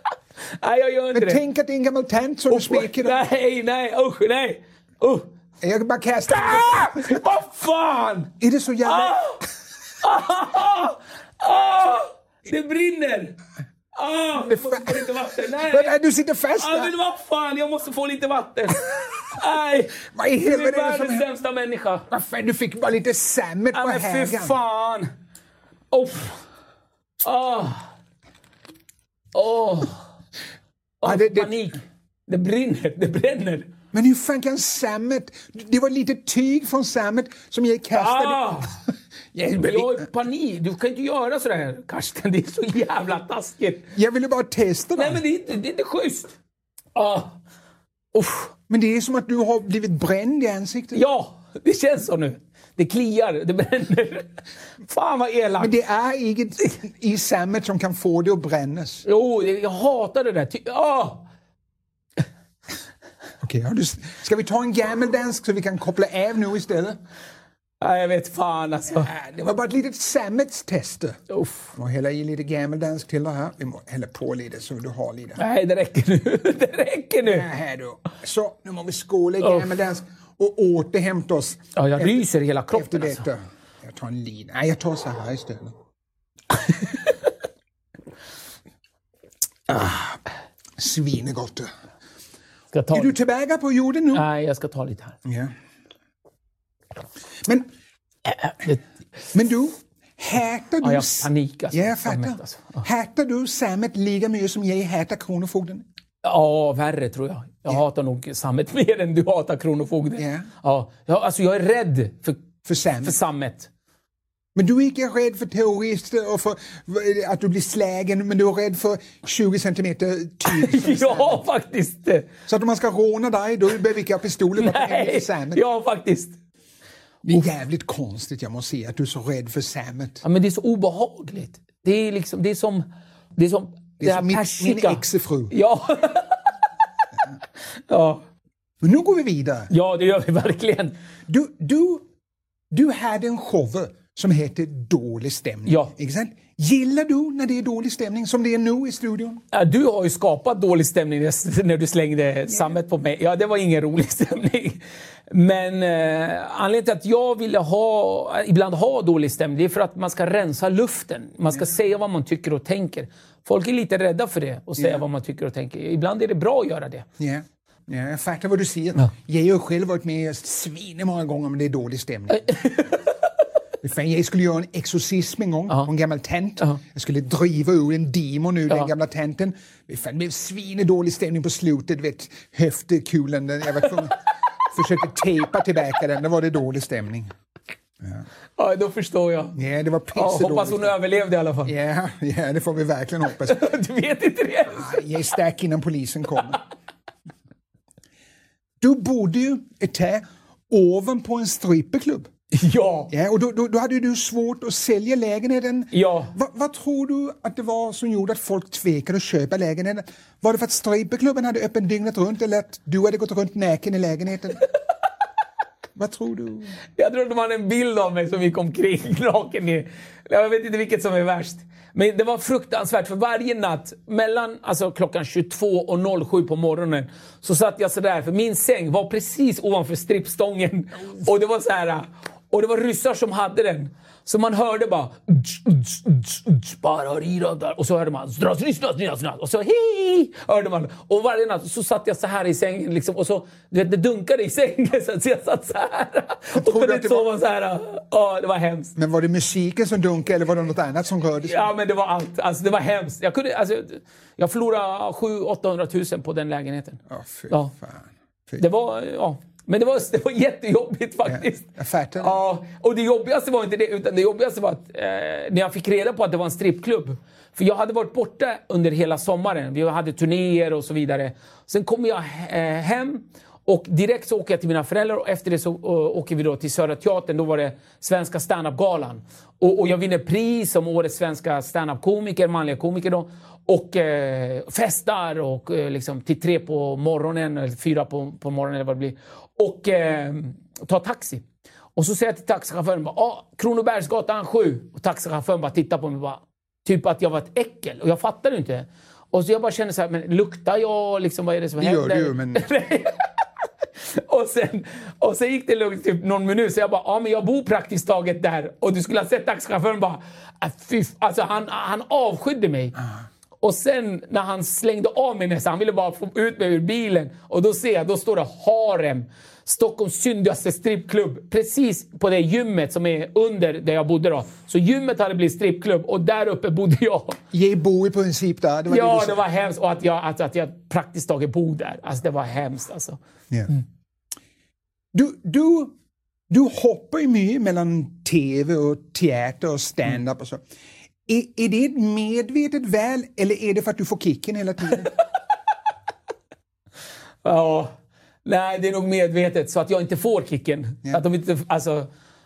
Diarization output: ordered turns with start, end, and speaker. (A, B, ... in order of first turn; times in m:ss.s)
0:00.6-0:01.4 A
0:01.1-0:03.2 B
0:02.5-0:05.3 A
0:05.6-0:07.2 B
0:06.3-0:08.3 A
0:08.4-0:09.2 B
0:08.8-0:09.4 A
0:10.0-0:13.4 A
0:14.0-0:16.0 A
0:14.4-0:16.9 B
0:16.6-0:22.1 A
0:20.0-0:21.3 B
0:22.1-0:24.6 B
0:23.7-0:25.1 A
0:25.9-0:26.4 A
0:27.2-0:27.9 A
0:29.3-0:30.0 A
0:31.0-0:33.7 A
0:31.0-0:31.6 B
0:33.9-0:38.7 B
0:37.9-0:38.7 A
0:39.3-0:40.1 B
0:39.6-0:43.9 A
0:43.9-0:45.2 B
0:45.0-0:46.4 A
0:47.0-0:47.4 A
0:48.1-0:48.5 A
0:48.7-0:51.0 B
0:50.9-0:55.7 A
0:55.6-0:59.0 B
0:59.0-1:01.2 A
1:03.4-1:07.0 B
1:07.8-1:09.1 A
1:08.9-1:11.2 B
1:11.3-1:11.7 A
1:11.8-1:15.4 B
1:15.4-1:17.5 A
1:17.2-1:25.8 B
1:19.4-1:19.7 A
1:21.8-1:23.2 A
1:29.7-1:30.2 B
1:30.8-1:31.7 B
1:32.7-1:33.2 A
1:32.9-1:34.2 B
1:34.1-1:35.2 A
1:35.2-1:35.5 B
1:38.3-1:38.8 A
1:39.3-1:45.8 B
1:40.8-1:42.8 A
1:46.2-1:52.5 A
1:50.2-1:50.5 B
1:52.6-1:53.2 B
1:53.0-1:53.7 A
1:54.6-2:01.4 B
2:00.4-2:02.3 A
2:02.5-2:05.6 B
2:04.6-2:06.4 A
2:07.2-2:10.2 B
2:10.2-2:16.5 A
2:14.0-2:15.5 B
2:17.9-2:18.2 A
2:18.8-2:19.7 B
2:19.7-2:21.0 A
2:21.3-2:22.0 B
2:22.7-2:29.4 B
2:25.7-2:25.9 A
2:29.5-2:47.1 A
2:44.8-2:45.0 B
2:47.2-2:52.8 B
2:52.5-2:53.0 A
2:53.8-3:07.3 B
3:08.6-3:09.6 A
3:09.6-3:11.0 B
3:10.1-3:11.7 A
3:11.6-3:13.7 B
3:13.5-3:15.0 A
3:14.7-3:16.6 B
3:18.8-3:22.3 B
3:22.5-3:23.1 A
3:23.1-3:34.6 B
3:25.9-3:26.3 A
3:36.0-3:36.8 B
3:37.0-4:08.9 A
4:06.5-4:07.3 B
4:09.0-4:11.6 B
4:11.4-4:17.7 A
4:17.1-4:18.6 B
4:18.6-4:51.4 A
4:21.2-4:22.4 B
4:52.0-5:03.2 A
5:01.8-5:02.7 B
5:04.1-5:13.0 A
5:13.6-5:27.4 A
5:27.5-5:29.4 B
5:28.9-5:33.2 A
5:35.1-5:35.9 B
5:36.5-5:40.6 B
5:41.3-5:45.1 B
5:47.4-5:47.9 A
5:48.4-5:52.1 A